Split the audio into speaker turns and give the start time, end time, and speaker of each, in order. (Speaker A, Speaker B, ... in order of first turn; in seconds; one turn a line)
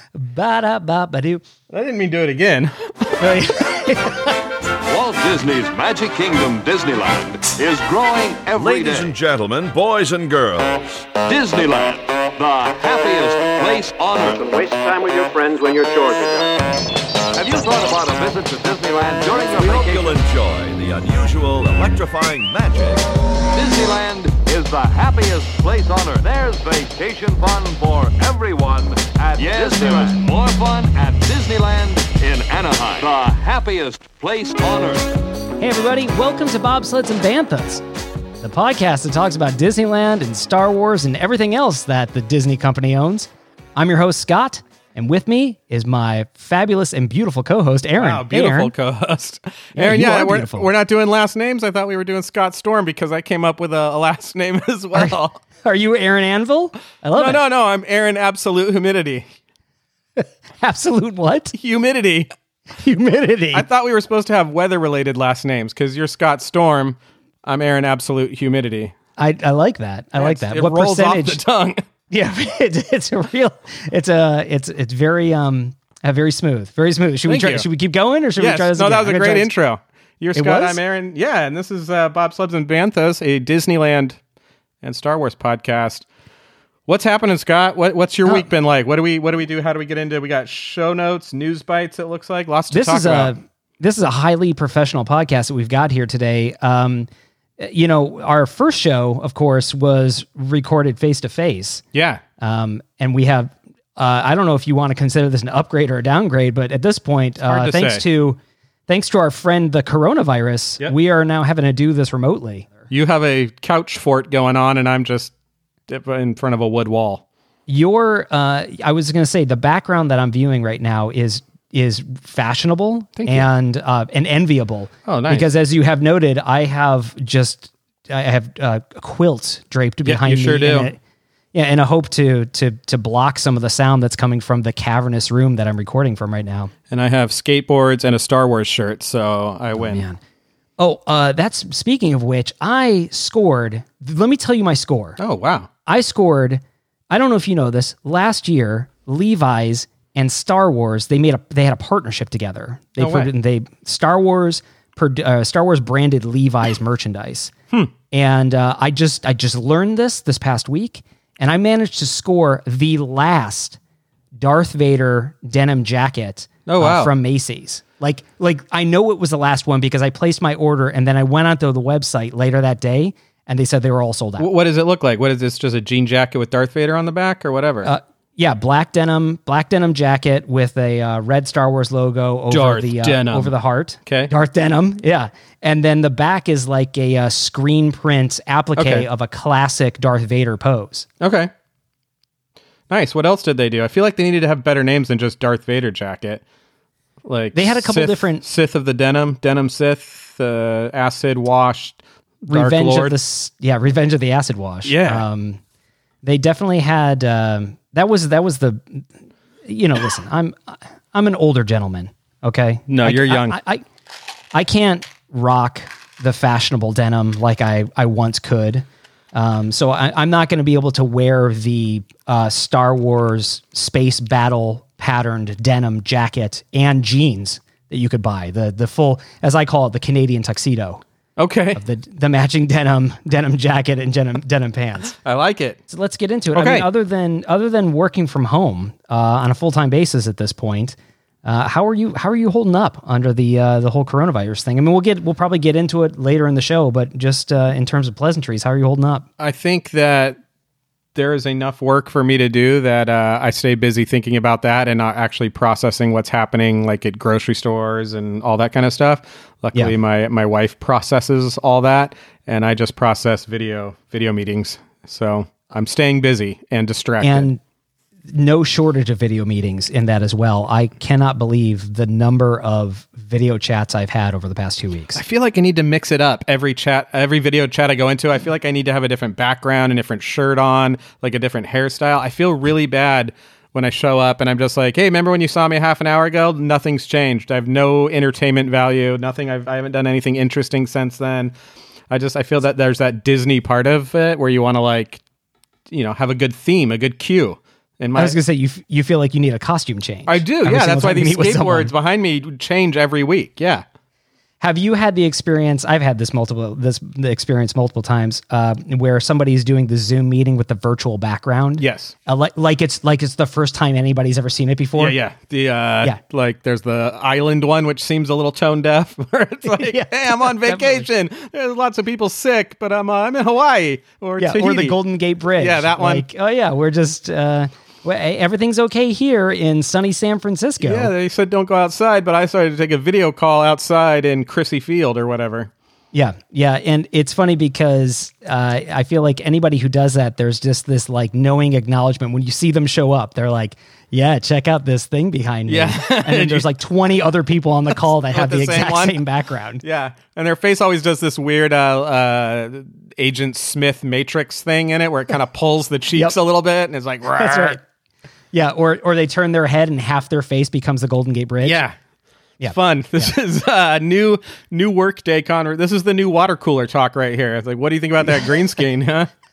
Speaker A: 0.1-1.4
Speaker B: 1.7-3.2
Speaker A: 3.2-4.3
Speaker C: 4.9-9.1
Speaker D: 8.5-11.1
Speaker C: 11.2-14.4
Speaker E: 14.3-16.6
Speaker C: 17.3-20.1
Speaker D: 19.3-23.0
Speaker C: 23.5-35.2
Speaker D: 29.1-30.2
Speaker A: 35.6-37.8
Speaker A: 38.4-48.7
Speaker B: 48.0-55.4
Speaker A: 49.8-50.7
Speaker A: 54.9-57.4
Speaker B: 57.1-59.3
Speaker A: 60.2-61.5
Speaker B: 61.5-62.3
Speaker A: 62.8-63.6
Speaker B: 63.5-68.9
Speaker A: 69.2-71.4
Speaker B: 70.2-71.8
Speaker A: 72.1-79.5
Speaker B: 77.3-77.7
Speaker B: 78.4-84.2
Speaker A: 80.3-80.8
Speaker B: 84.8-86.0
Speaker B: 86.9-93.3
Speaker A: 92.7-97.1
Speaker A: 97.6-101.8
Speaker B: 101.9-102.2
Speaker A: 102.4-112.8
Speaker B: 107.4-108.0
Speaker B: 112.9-115.3
Speaker B: 115.9-117.2
Speaker A: 117.7-131.0
Speaker B: 123.2-123.5
Speaker B: 125.0-125.5
Speaker B: 130.0-130.9
Speaker A: 131.5-136.7
Speaker B: 136.9-140.0
Speaker A: 139.8-140.2
Speaker A: 140.8-145.2
Speaker B: 145.2-145.7
Speaker A: 145.8-157.5
Speaker B: 153.0-153.3
Speaker A: 158.1-163.8
Speaker A: 164.4-174.5
Speaker B: 166.7-167.1
Speaker B: 174.4-177.9
Speaker A: 177.8-191.1
Speaker B: 182.5-183.5
Speaker B: 184.1-184.3
Speaker B: 188.8-189.1
Speaker B: 191.2-191.5
Speaker B: 192.9-196.4
Speaker B: 197.2-203.2
Speaker A: 197.5-198.4
Speaker A: 202.5-205.6
Speaker B: 204.8-205.2
Speaker A: 206.2-209.1
Speaker A: 209.6-213.8
Speaker B: 212.9-213.6
Speaker A: 214.5-231.0
Speaker B: 231.4-231.8
Speaker A: 231.7-235.2
Speaker B: 235.2-235.8
Speaker A: 235.9-249.3
Speaker B: 236.5-236.9
Speaker B: 249.4-250.4
Speaker B: 251.1-267.5
Speaker A: 267.2-267.6
Speaker A: 268.3-275.2
Speaker B: 275.1-291.5
Speaker B: 292.1-295.2
Speaker B: 295.9-298.4
Speaker A: 298.1-301.9
Speaker B: 300.3-303.8
Speaker A: 304.6-315.2
Speaker B: 311.8-312.1
Speaker B: 315.0-325.0
Speaker A: 319.6-321.1
Speaker A: 324.4-331.1
Speaker B: 325.6-326.2
Speaker B: 330.8-335.7
Speaker A: 336.1-349.8
Speaker B: 345.7-346.7
Speaker B: 347.9-349.2
Speaker B: 349.8-357.8
Speaker A: 357.3-357.8
Speaker A: 358.5-361.8
Speaker B: 361.6-361.9
Speaker A: 362.6-363.3
Speaker B: 362.7-369.3